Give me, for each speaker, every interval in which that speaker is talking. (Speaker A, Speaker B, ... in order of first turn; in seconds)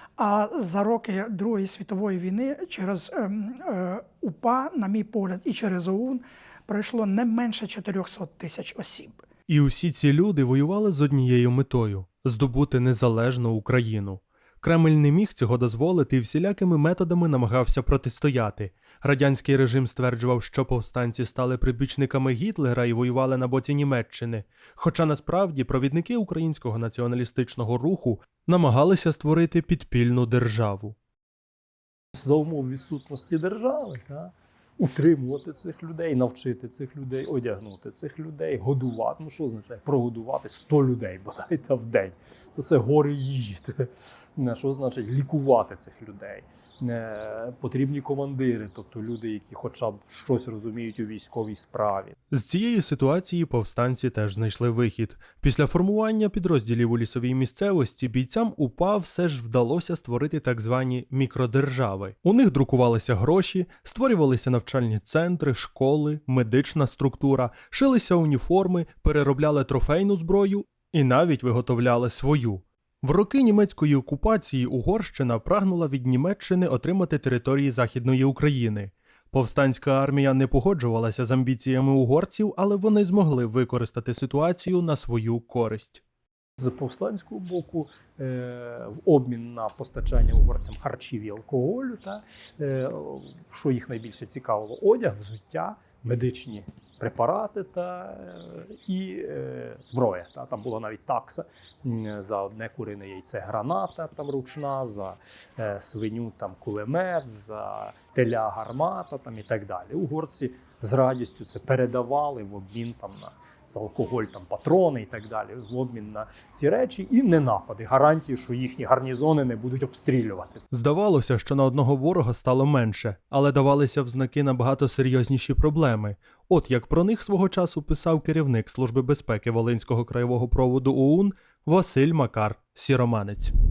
Speaker A: 0.2-9.2
Speaker B: 9.5-31.0, 52.3-86.0, 120.7-133.5
Speaker C: 32.1-52.2, 86.6-120.6